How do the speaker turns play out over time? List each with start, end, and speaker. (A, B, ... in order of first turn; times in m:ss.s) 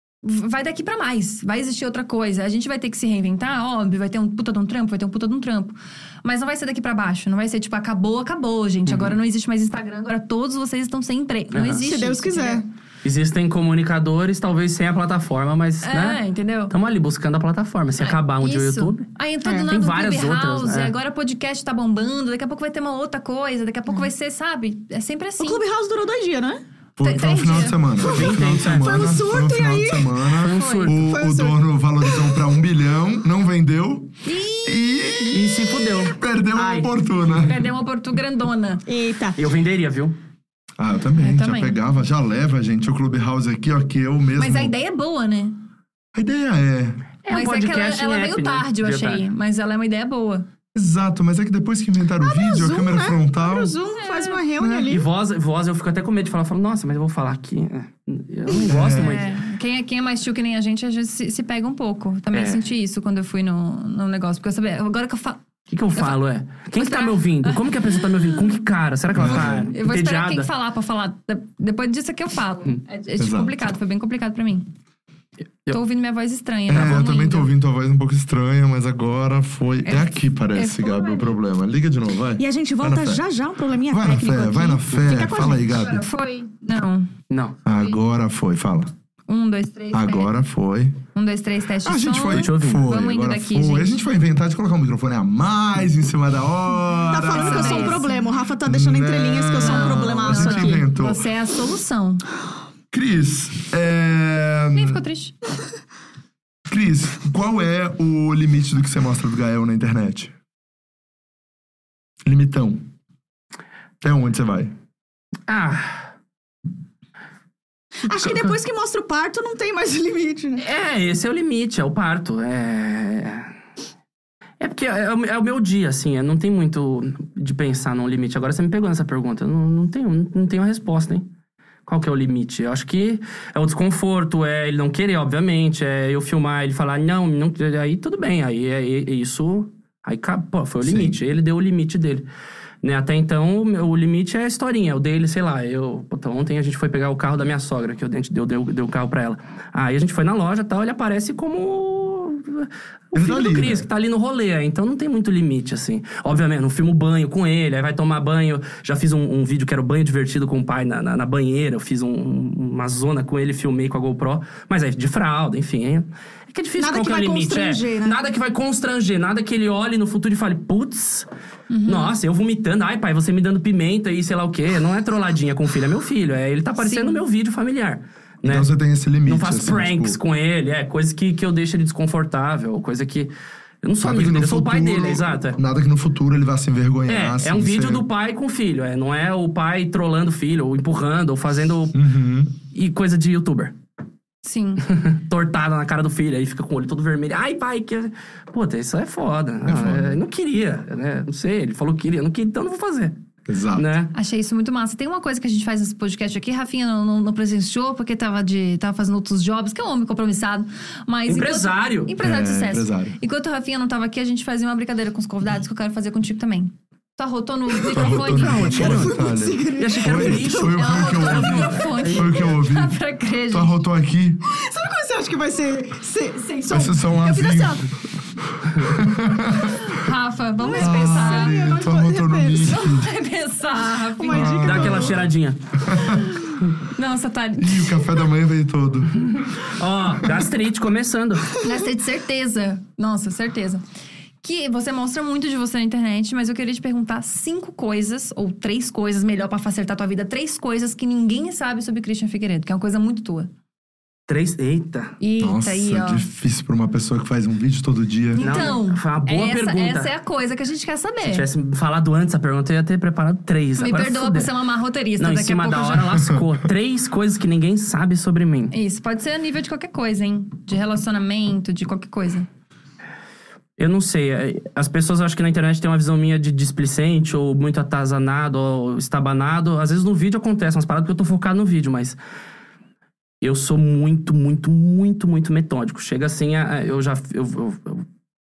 0:00.2-0:12.6 A
0:08.8-0:09.2 B
0:11.5-0:11.8 B
0:11.8-0:12.6 C
0:13.0-0:19.0 B
0:15.8-0:16.7 A
0:18.0-0:25.6 A
0:19.4-0:19.7 C
0:19.6-0:20.9 B
0:25.4-0:26.6 C
0:27.0-0:37.6 D
0:27.0-0:27.8 A
0:28.0-0:29.2 B
0:28.0-0:30.3 C
0:30.3-0:31.1 B
0:30.5-0:30.9 A
0:31.0-0:32.3 C
0:34.2-0:34.8 A
0:35.3-0:36.9 B
0:37.3-0:38.8 A
0:38.9-0:39.4 C
0:39.4-0:40.2 B
0:40.8-0:44.7 D
0:41.2-0:41.8 A
0:44.4-0:45.6 A
0:46.1-0:47.0 D
0:47.2-0:49.2 B
0:47.3-0:50.4 A
0:50.7-0:53.7 D
0:52.2-0:55.1 C
0:54.0-0:54.4 A
0:54.6-0:55.0 D
0:54.9-0:59.3 B
0:58.6-0:59.2 D
0:58.9-1:05.4 A
1:02.3-1:02.6 B
1:05.7-1:10.5 B
1:06.8-1:08.4 A
1:09.1-1:09.7 D
1:09.3-1:14.7 A
1:13.2-1:13.5 D
1:15.7-1:17.5 A
1:16.7-1:23.2 D
1:19.8-1:21.4 A
1:22.4-1:25.9 C
1:23.9-1:26.0 D
1:25.7-1:27.1 A
1:27.3-1:27.6 B
1:27.6-1:28.9 D
1:29.3-1:30.3 A
1:29.9-1:31.0 D
1:31.1-1:34.0 A
1:31.8-1:38.0 D
1:32.3-1:32.9 B
1:37.1-1:40.8 C
1:37.3-1:38.2 A
1:38.6-1:41.2 D
1:39.6-1:42.2 A
1:42.9-1:45.0 D
1:44.7-1:45.3 A
1:46.7-1:50.3 D
1:52.2-1:52.8 D
1:54.0-1:54.7 D
1:55.5-1:56.0 B
1:58.0-2:00.6 C
1:58.2-1:58.5 B
2:00.6-2:03.5 B
2:04.6-2:11.2 B
2:11.9-2:22.2 B
2:20.8-2:21.2 D
2:22.8-2:51.3 B
2:33.1-2:33.9 D
2:46.8-2:48.2 C
2:51.7-2:52.1 A
2:51.8-2:58.7 B
2:56.8-2:57.2 A
2:58.4-3:00.2 D
2:59.2-3:03.3 B
3:03.8-3:05.6 B
3:04.0-3:08.0 D
3:07.1-3:12.0 B
3:11.9-3:12.5 D
3:12.7-3:13.7 B
3:14.4-3:14.8 A
3:14.8-3:23.1 B
3:19.6-3:20.2 D
3:23.5-3:23.9 D
3:23.7-3:24.1 B
3:24.1-3:38.8 A
3:31.3-3:32.1 B
3:32.2-3:33.2 D
3:37.9-3:43.0 D
3:38.3-3:42.3 B
3:38.5-3:40.9 C
3:40.8-3:43.7 A
3:43.5-3:44.4 D
3:44.5-3:47.8 C
3:46.7-3:47.8 D
3:48.7-3:49.9 D
3:49.6-3:51.6 A
3:50.6-3:52.8 C
3:50.8-3:53.1 D
3:52.6-3:54.8 A
3:54.2-3:55.2 C
3:54.3-3:55.3 D
3:54.6-3:55.6 B
3:55.8-3:56.2 D
3:56.9-3:58.1 A
3:57.6-3:59.3 D
3:59.2-4:01.5 B
4:01.6-4:03.8 A
4:04.4-4:13.5 A
4:14.3-4:15.2 B
4:15.2-4:16.2 A
4:15.4-4:18.7 D
4:18.3-4:21.4 A
4:18.4-4:20.1 B
4:21.2-4:24.5 B
4:23.8-4:26.2 A
4:25.2-4:28.7 B
4:28.7-4:32.5 A
4:33.8-4:42.2 B
4:43.4-4:48.0 B